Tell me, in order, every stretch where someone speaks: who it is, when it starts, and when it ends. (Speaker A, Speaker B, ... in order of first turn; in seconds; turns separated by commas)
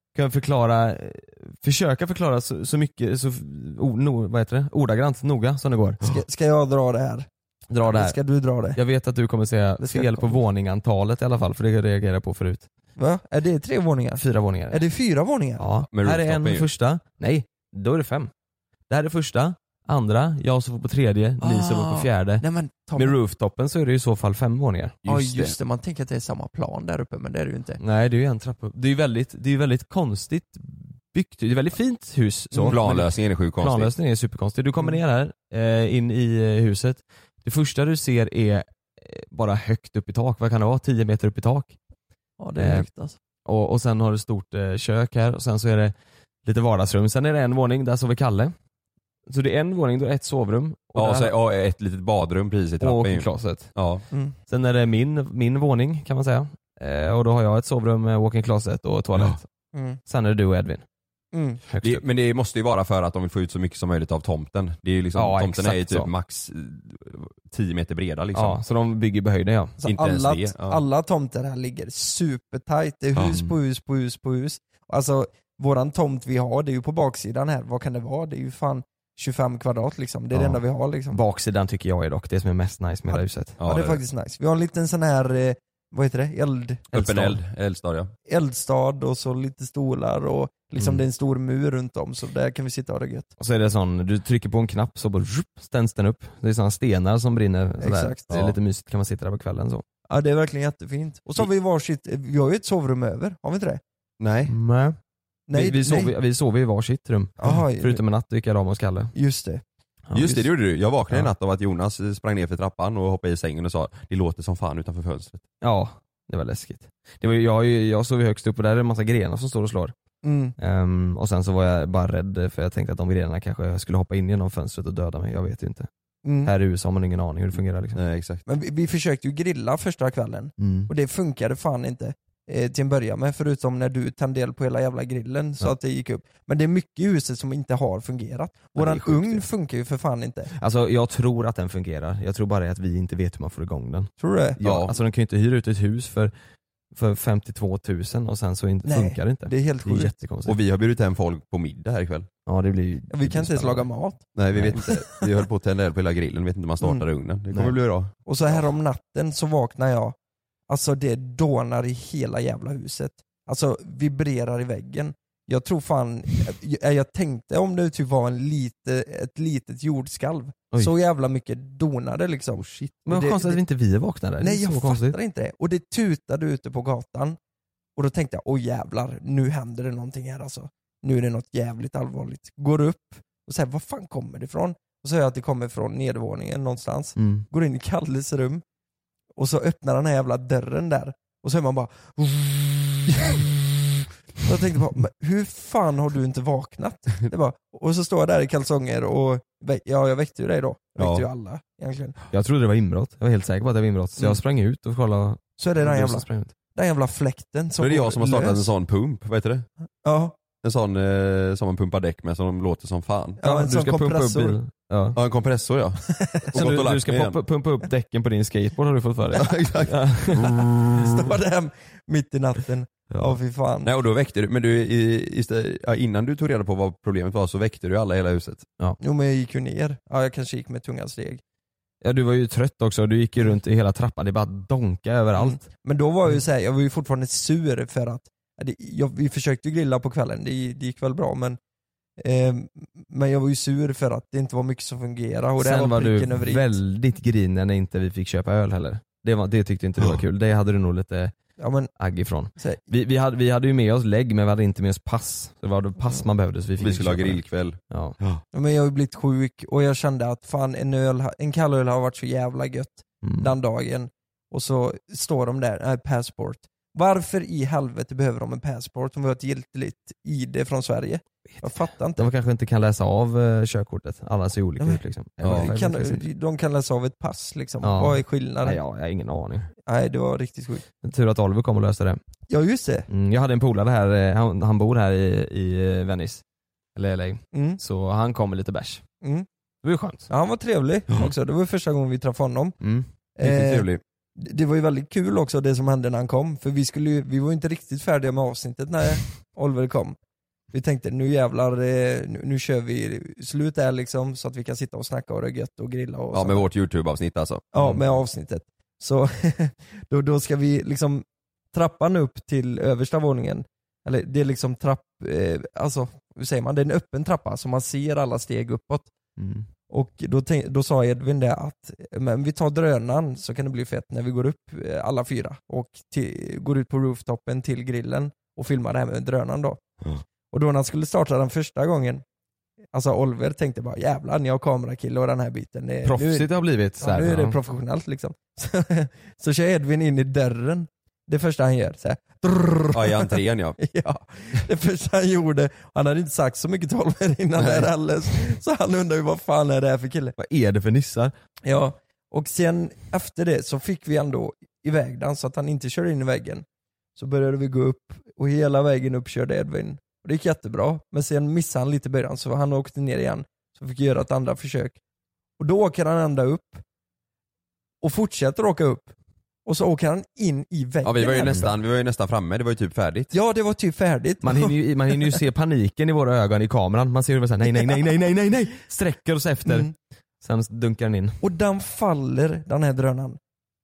Speaker A: 0.1-6.0, Speaker B: 6.0-7.3, Speaker A: 7.7-8.2, Speaker B: 7.8-8.8, Speaker A: 8.8-12.7, Speaker B: 9.8-10.4, Speaker B: 13.0-15.6, Speaker A: 14.2-14.8, Speaker A: 15.6-18.3, Speaker C: 15.9-16.7, Speaker A: 18.9-25.0, Speaker B: 21.4-23.2, Speaker C: 25.0-25.6, Speaker B: 25.1-27.8, Speaker A: 27.8-41.8, Speaker B: 32.5-32.8, Speaker C: 32.7-33.9, Speaker B: 42.4-43.2, Speaker A: 42.6-42.9, Speaker A: 43.5-45.9, Speaker A: 46.4-48.5, Speaker A: 49.3-51.3, Speaker C: 51.0-54.0, Speaker A: 52.8-53.7, Speaker B: 54.1-54.4, Speaker A: 54.5-59.5, Speaker B: 59.7-60.0, Speaker A: 60.0-60.8, Speaker B: 61.3-61.6, Speaker A: 61.7-62.0, Speaker C: 61.8-68.6, Speaker A: 65.1-66.1, Speaker A: 68.3-69.8, Speaker B: 69.8-81.2, Speaker C: 69.8-70.8, Speaker C: 73.2-73.5, Speaker A: 80.3-83.6, Speaker B: 83.1-86.8, Speaker C: 83.6-84.0, Speaker A: 86.9-87.4, Speaker C: 86.9-88.1, Speaker B: 88.3-93.3, Speaker A: 93.4-99.8, Speaker B: 97.8-98.3, Speaker C: 98.3-98.5, Speaker B: 100.1-103.8, Speaker C: 104.2-104.5, Speaker A: 104.5-105.0, Speaker B: 105.5-106.1, Speaker A: 105.5-109.1, Speaker B: 107.4-108.0, Speaker B: 109.1-109.6, Speaker A: 110.1-110.5, Speaker C: 110.1-115.4, Speaker A: 115.6-119.9, Speaker B: 120.2-120.5, Speaker A: 120.6-125.9, Speaker B: 126.2-126.5, Speaker A: 126.4-128.0, Speaker C: 128.0-128.4, Speaker B: 128.4-140.5, Speaker A: 130.6-130.9, Speaker A: 138.8-139.4, Speaker A: 140.6-146.3, Speaker B: 144.2-144.6, Speaker C: 144.6-144.9, Speaker A: 146.9-150.6, Speaker B: 148.8-150.2, Speaker C: 150.4-152.3, Speaker A: 152.4-153.9, Speaker B: 153.1-154.2, Speaker C: 154.3-158.6, Speaker A: 154.5-154.8, Speaker B: 154.8-155.2, Speaker A: 157.5-157.8, Speaker B: 158.2-160.1, Speaker B: 160.7-173.6, Speaker C: 172.6-173.0, Speaker A: 173.1-175.2, Speaker B: 174.4-177.4, Speaker B: 177.9-188.6, Speaker A: 187.2-187.4, Speaker B: 189.4-193.7, Speaker B: 194.4-202.1, Speaker C: 201.0-201.3, Speaker A: 202.3-206.5, Speaker B: 205.6-208.7, Speaker C: 207.8-209.7, Speaker B: 210.0-210.4, Speaker C: 210.6-213.4, Speaker B: 213.4-214.6, Speaker A: 213.4-215.2, Speaker C: 215.1-217.4, Speaker B: 216.1-216.5, Speaker A: 216.5-220.6, Speaker C: 219.3-221.1, Speaker B: 220.8-223.9, Speaker C: 223.8-228.6, Speaker B: 229.0-231.4, Speaker A: 232.0-235.6, Speaker B: 235.3-241.6, Speaker B: 242.2-246.8, Speaker A: 245.6-251.3, Speaker B: 251.6-251.9, Speaker A: 251.9-258.1, Speaker B: 252.6-252.8, Speaker C: 256.8-258.4, Speaker B: 258.5-272.2, Speaker A: 263.2-263.5, Speaker A: 271.6-276.2, Speaker B: 274.8-278.8, Speaker C: 275.4-275.7, Speaker A: 277.8-279.7, Speaker B: 279.9-280.8, Speaker A: 281.0-282.2, Speaker B: 282.5-283.1, Speaker A: 283.1-286.4, Speaker A: 286.9-289.0, Speaker B: 287.5-287.8, Speaker A: 289.8-290.3, Speaker B: 290.3-292.8, Speaker A: 292.8-293.1, Speaker B: 293.4-300.1, Speaker C: 293.4-294.0, Speaker B: 300.7-306.6, Speaker C: 306.3-308.1, Speaker B: 307.7-319.1, Speaker A: 319.4-319.7, Speaker B: 319.9-329.8, Speaker B: 330.5-332.2, Speaker B: 332.9-350.4, Speaker A: 336.0-337.6, Speaker C: 342.9-343.8, Speaker C: 347.6-347.9, Speaker A: 350.4-351.3, Speaker B: 351.6-356.6, Speaker B: 357.1-365.0, Speaker B: 365.6-366.8, Speaker B: 368.0-369.1, Speaker B: 369.6-371.7, Speaker C: 371.0-373.3, Speaker A: 371.4-371.7, Speaker B: 373.3-375.4, Speaker A: 374.4-381.4, Speaker B: 379.6-379.9, Speaker B: 381.4-383.4